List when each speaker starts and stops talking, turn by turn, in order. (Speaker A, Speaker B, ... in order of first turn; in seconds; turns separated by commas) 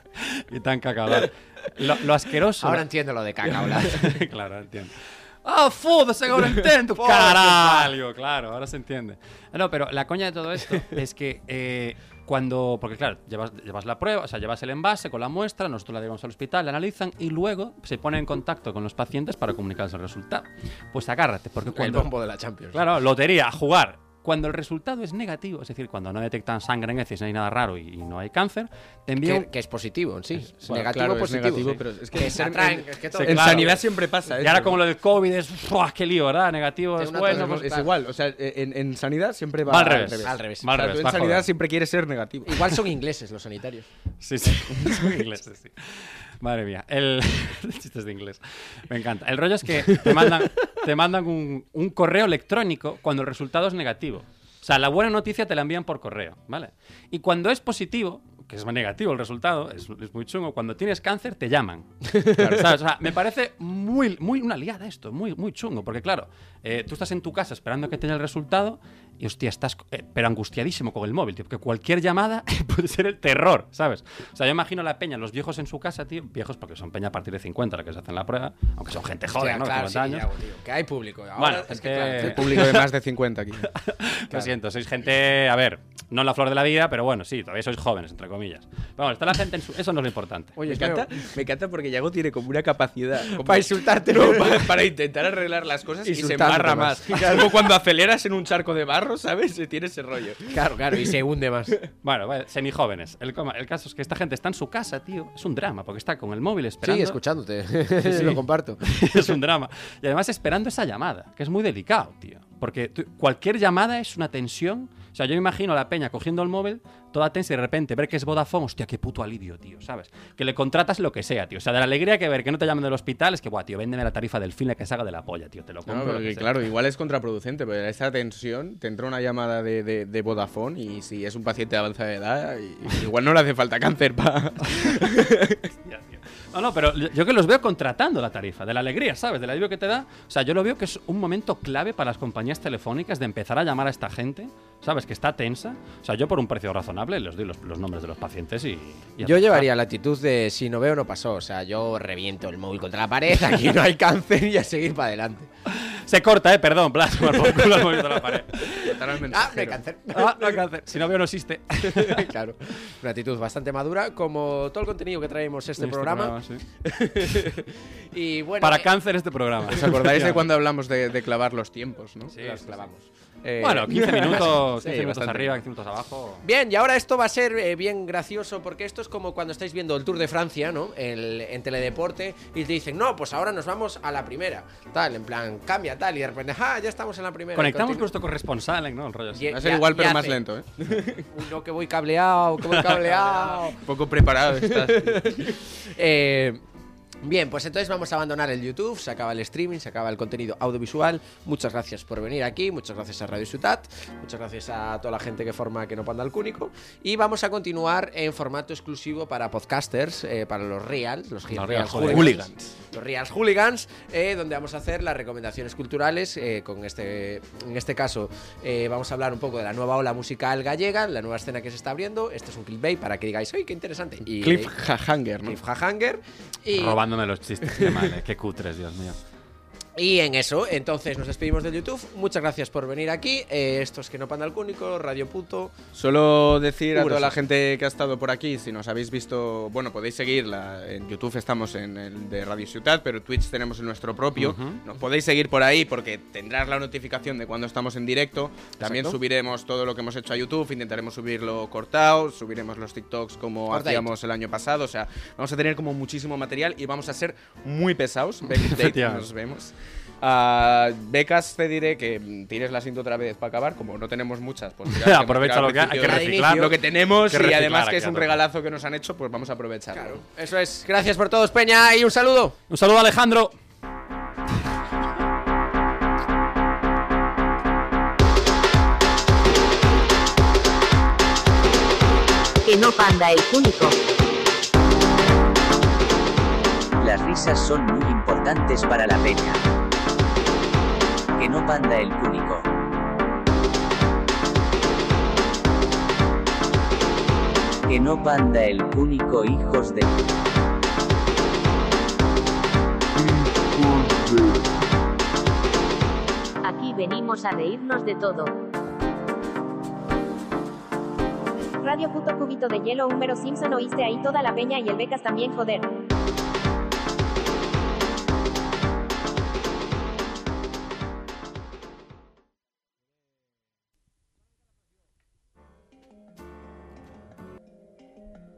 Speaker A: 0.2-2.8, Speaker B: 2.6-4.2, Speaker A: 3.5-22.1, Speaker B: 6.9-7.9, Speaker B: 21.6-22.8, Speaker A: 22.7-29.5, Speaker B: 29.2-33.8, Speaker C: 30.7-34.8, Speaker A: 33.1-33.8, Speaker A: 34.4-37.7, Speaker B: 37.0-37.9, Speaker C: 37.2-42.7, Speaker A: 39.6-41.5, Speaker B: 40.2-40.7, Speaker B: 42.4-43.9, Speaker A: 44.2-80.3, Speaker C: 44.8-45.1, Speaker B: 79.2-82.7, Speaker A: 81.3-82.8, Speaker C: 82.2-83.7, Speaker A: 83.7-90.5, Speaker B: 90.5-91.2, Speaker C: 90.7-101.1, Speaker B: 93.2-94.8, Speaker B: 96.0-97.7, Speaker B: 100.5-101.8, Speaker A: 102.0-107.2, Speaker B: 106.8-109.3, Speaker A: 108.0-126.6, Speaker C: 125.8-135.6, Speaker A: 135.8-149.7, Speaker B: 149.2-155.5, Speaker A: 155.7-158.6, Speaker B: 157.2-160.6, Speaker C: 158.7-159.8, Speaker A: 160.1-162.3, Speaker B: 161.8-168.9, Speaker A: 165.8-166.6, Speaker A: 168.6-170.4, Speaker C: 169.7-172.6, Speaker A: 172.3-172.6, Speaker B: 172.4-174.4, Speaker C: 173.5-175.6, Speaker A: 173.6-176.4, Speaker B: 176.4-188.1, Speaker A: 187.6-189.5, Speaker B: 189.3-193.8, Speaker C: 189.5-191.3, Speaker C: 193.2-195.6, Speaker B: 194.5-196.6, Speaker B: 197.2-224.7, Speaker A: 211.5-212.4, Speaker C: 212.0-212.7, Speaker C: 224.2-225.6, Speaker B: 225.4-227.0, Speaker A: 226.7-229.2, Speaker B: 227.6-228.1, Speaker B: 229.9-235.8, Speaker C: 235.9-270.2, Speaker B: 236.9-237.4, Speaker A: 244.4-244.8, Speaker B: 248.8-249.2, Speaker B: 253.7-254.1, Speaker A: 258.6-259.3, Speaker A: 264.9-268.4, Speaker B: 265.9-266.8, Speaker B: 269.9-272.6, Speaker A: 272.7-273.6, Speaker D: 282.7-283.9, Speaker E: 287.0-289.6, Speaker E: 291.4-292.6, Speaker E: 297.9-300.1, Speaker D: 306.9-308.0, Speaker F: 311.8-315.9